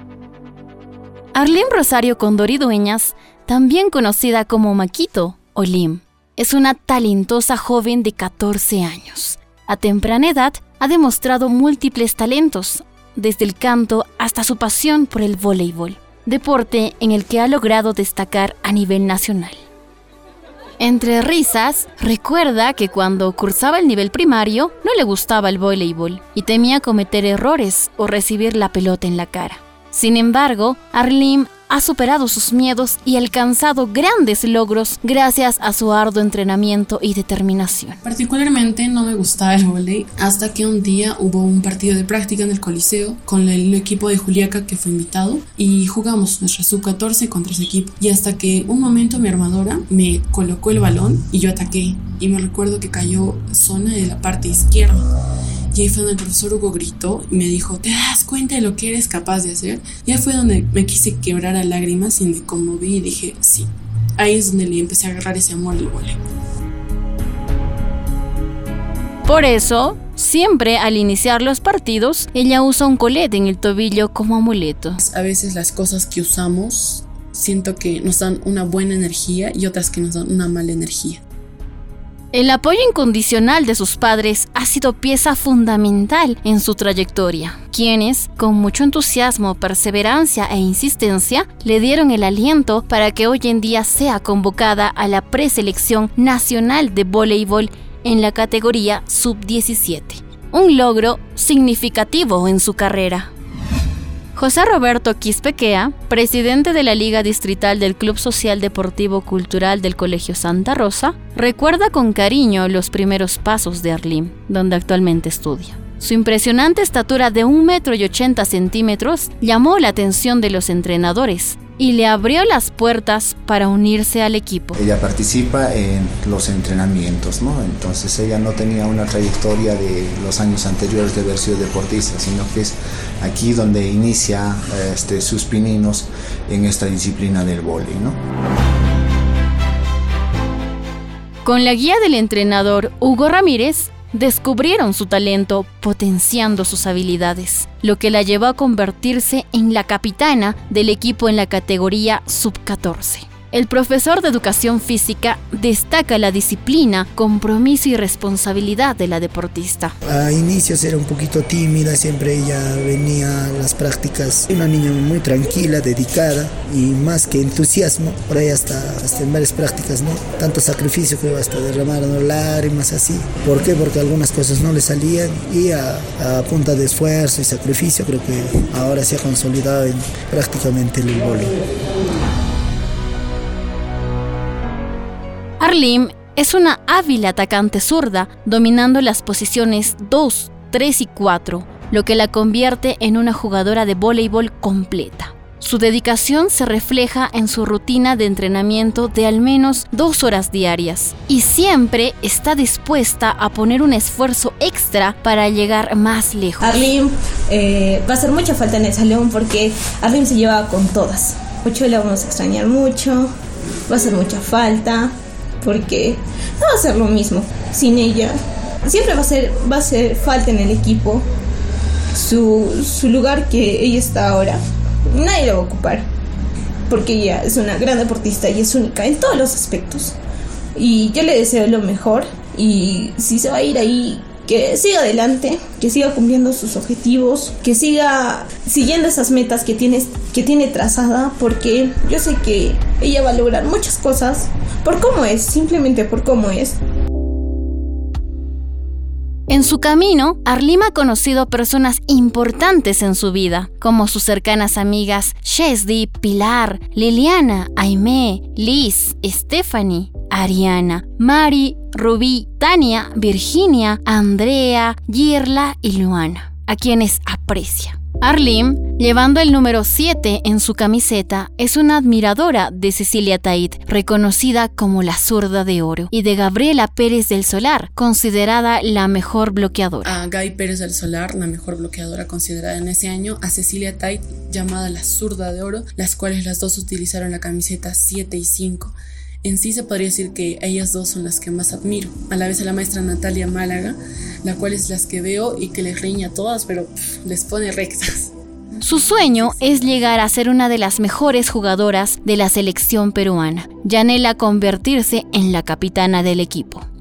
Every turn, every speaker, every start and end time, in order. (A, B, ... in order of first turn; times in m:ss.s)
0:01.3-0:19.6 A
0:20.8-0:38.0 A
0:38.0-0:55.1 B
0:55.7-1:06.2 B
1:09.2-1:15.0 A
1:15.0-1:21.2 B
1:22.3-1:43.3 A
1:44.3-2:04.8 A
2:04.7-2:18.2 C
2:21.4-2:39.9 A
2:40.1-3:01.5 D
3:05.6-3:26.9 A
3:26.6-3:33.3 E
3:33.9-3:35.1 E
3:35.6-3:41.2 E
3:42.1-3:46.1 E
3:46.9-3:50.2 E
3:50.7-4:06.8 E
4:09.5-4:40.1 A
4:40.0-4:58.3 B
4:58.8-5:06.8 A
4:59.1-4:59.4 B